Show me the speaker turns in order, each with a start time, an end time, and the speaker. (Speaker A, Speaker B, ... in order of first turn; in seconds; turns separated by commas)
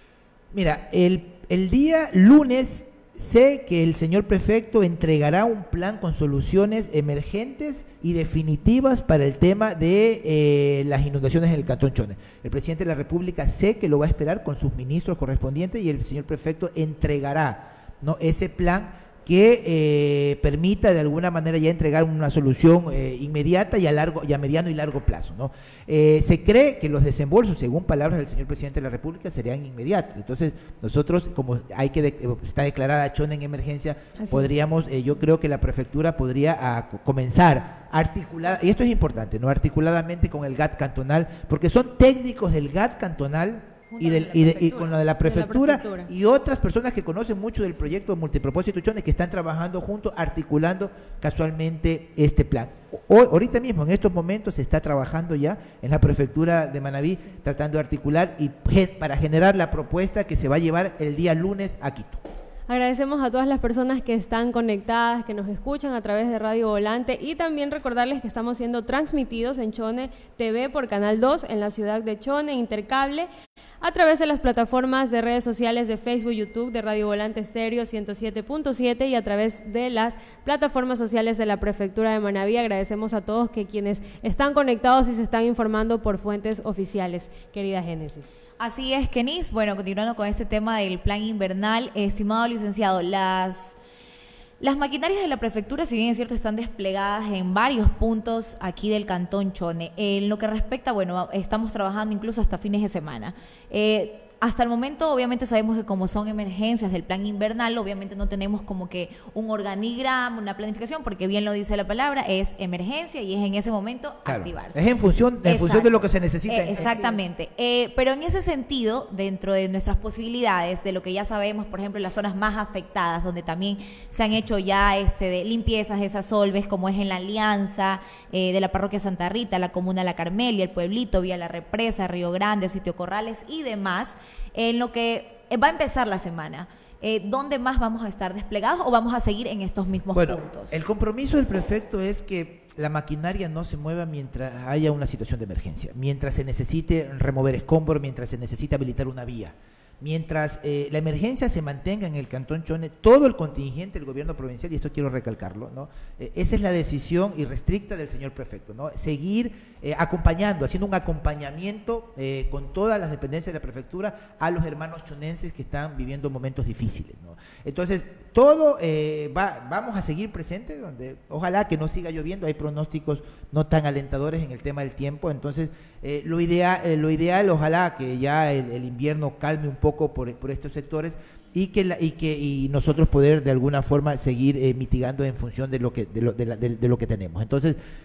Speaker A: 0.5-62.2, Speaker B: 34.2-34.5, Speaker C: 43.9-44.9, Speaker B: 45.2-46.1, Speaker B: 62.7-73.3, Speaker B: 73.8-88.3, Speaker C: 88.6-93.8, Speaker C: 94.6-114.8, Speaker A: 114.2-116.9, Speaker C: 115.4-140.7, Speaker B: 116.8-117.2, Speaker A: 140.1-187.8